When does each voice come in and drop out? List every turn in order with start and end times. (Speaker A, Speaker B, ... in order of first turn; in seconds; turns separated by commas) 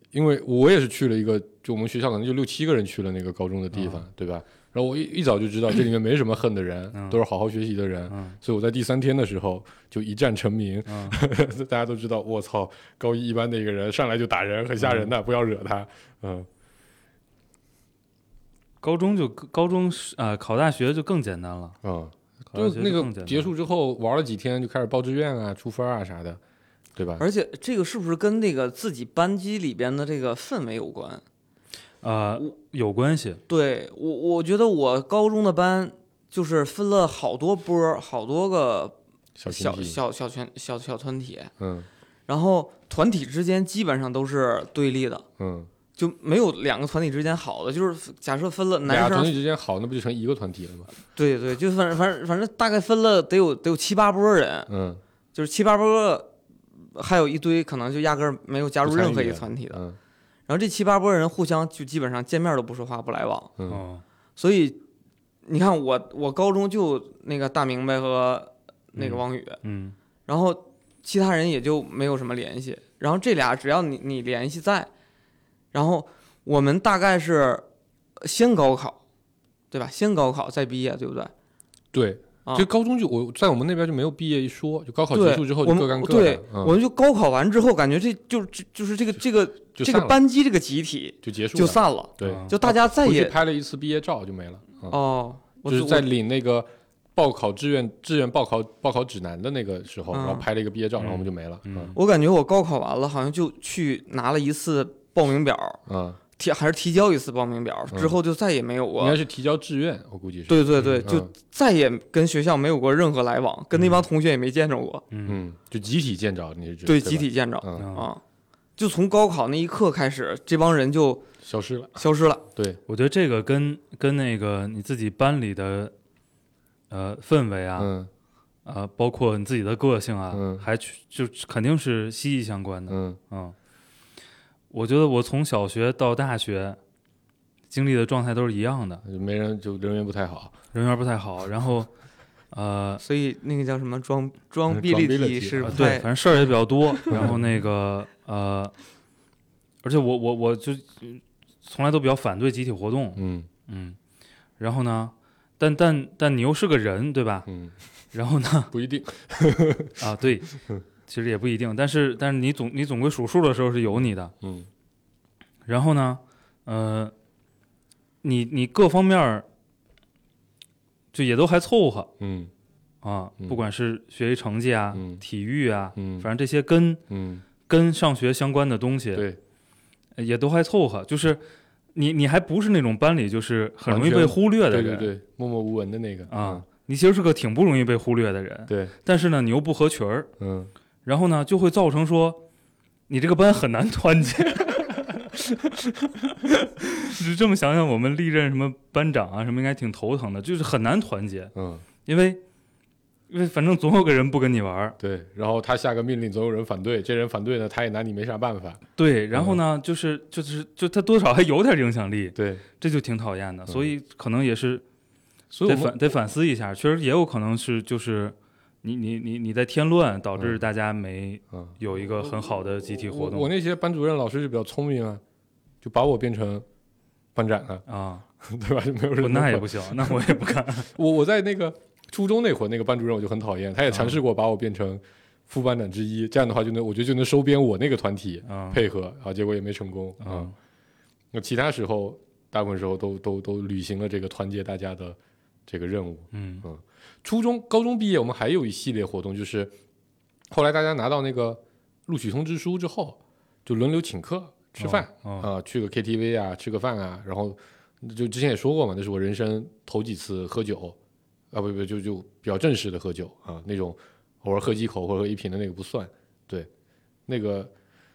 Speaker A: 0.1-16.5, Speaker B: 3.7-4.0, Speaker B: 6.9-7.2, Speaker B: 8.1-8.4, Speaker B: 10.9-11.2, Speaker B: 14.8-15.1, Speaker B: 18.8-21.8, Speaker A: 21.8-26.4, Speaker B: 22.5-23.5, Speaker A: 26.9-27.2, Speaker C: 27.2-31.2, Speaker B: 32.0-33.4, Speaker C: 33.5-38.9, Speaker A: 39.4-40.0, Speaker C: 39.5-41.5, Speaker A: 41.6-41.9, Speaker C: 42.3-45.2, Speaker A: 45.4-45.7, Speaker C: 46.0-49.4, Speaker A: 48.9-50.9, Speaker C: 51.1-54.7, Speaker A: 54.7-55.0, Speaker C: 55.3-56.3, Speaker C: 56.9-59.8, Speaker A: 58.8-60.0, Speaker C: 60.5-63.5, Speaker A: 63.6-63.8, Speaker B: 63.7-64.0, Speaker C: 64.4-64.8, Speaker C: 65.5-69.6, Speaker B: 69.0-69.9, Speaker C: 70.2-74.9, Speaker C: 75.7-77.6, Speaker C: 78.2-79.0, Speaker C: 79.7-81.3, Speaker A: 81.9-86.8, Speaker C: 85.1-93.3, Speaker A: 89.8-90.2, Speaker A: 91.2-95.0, Speaker B: 92.2-92.5, Speaker C: 94.9-96.0, Speaker A: 95.6-101.9, Speaker C: 100.1-100.5, Speaker B: 101.0-102.0, Speaker C: 101.9-105.8, Speaker A: 105.8-106.2, Speaker C: 106.4-109.2, Speaker A: 107.9-108.2, Speaker A: 109.0-111.3, Speaker C: 110.5-115.0, Speaker B: 110.8-111.0, Speaker B: 113.7-114.0, Speaker B: 115.1-115.4, Speaker A: 115.2-117.9, Speaker C: 116.8-118.2, Speaker B: 117.8-118.1, Speaker C: 118.8-121.2, Speaker A: 121.4-122.8, Speaker C: 122.0-122.4, Speaker B: 122.9-125.9, Speaker B: 126.9-127.9, Speaker A: 127.8-128.1, Speaker B: 128.6-133.5, Speaker A: 130.3-130.7, Speaker A: 132.9-133.2, Speaker B: 134.7-136.8, Speaker B: 137.7-139.0, Speaker A: 139.0-140.6, Speaker B: 140.7-141.9, Speaker B: 142.5-143.0, Speaker C: 143.0-146.1, Speaker A: 144.7-145.9, Speaker B: 145.6-148.7, Speaker A: 147.1-147.4, Speaker B: 149.8-154.0, Speaker A: 153.2-153.5, Speaker B: 154.6-157.5, Speaker A: 157.5-157.7, Speaker B: 158.1-158.7, Speaker A: 158.7-160.0, Speaker B: 160.0-164.3, Speaker A: 163.9-164.7, Speaker B: 165.7-167.1, Speaker B: 168.2-169.4, Speaker B: 171.1-172.1, Speaker A: 172.2-172.5, Speaker B: 173.0-177.0, Speaker A: 174.9-175.2, Speaker A: 175.9-176.3, Speaker A: 177.1-177.4, Speaker B: 177.7-179.3, Speaker A: 179.1-179.4, Speaker B: 180.2-181.4, Speaker B: 181.9-185.1, Speaker A: 183.9-186.6, Speaker B: 186.3-190.3, Speaker A: 188.7-188.9, Speaker A: 190.4-190.7, Speaker B: 191.0-192.4, Speaker B: 193.1-195.6, Speaker B: 196.3-201.5, Speaker A: 201.5-201.8, Speaker B: 202.1-202.4, Speaker B: 203.3-205.0, Speaker A: 205.0-209.6, Speaker B: 209.0-214.8, Speaker A: 212.3-212.6, Speaker A: 215.5-216.1, Speaker B: 215.7-223.5, Speaker A: 220.4-220.6, Speaker A: 221.5-225.2, Speaker A: 225.8-226.7, Speaker A: 227.3-227.8, Speaker B: 227.9-228.2, Speaker A: 228.4-230.4, Speaker B: 229.2-230.9, Speaker A: 230.9-240.5, Speaker B: 233.9-234.2, Speaker B: 238.5-238.8, Speaker B: 240.2-240.5, Speaker A: 241.3-249.7, Speaker B: 246.3-246.6, Speaker A: 250.5-261.0, Speaker B: 254.8-255.5, Speaker A: 261.5-266.7, Speaker A: 267.3-267.7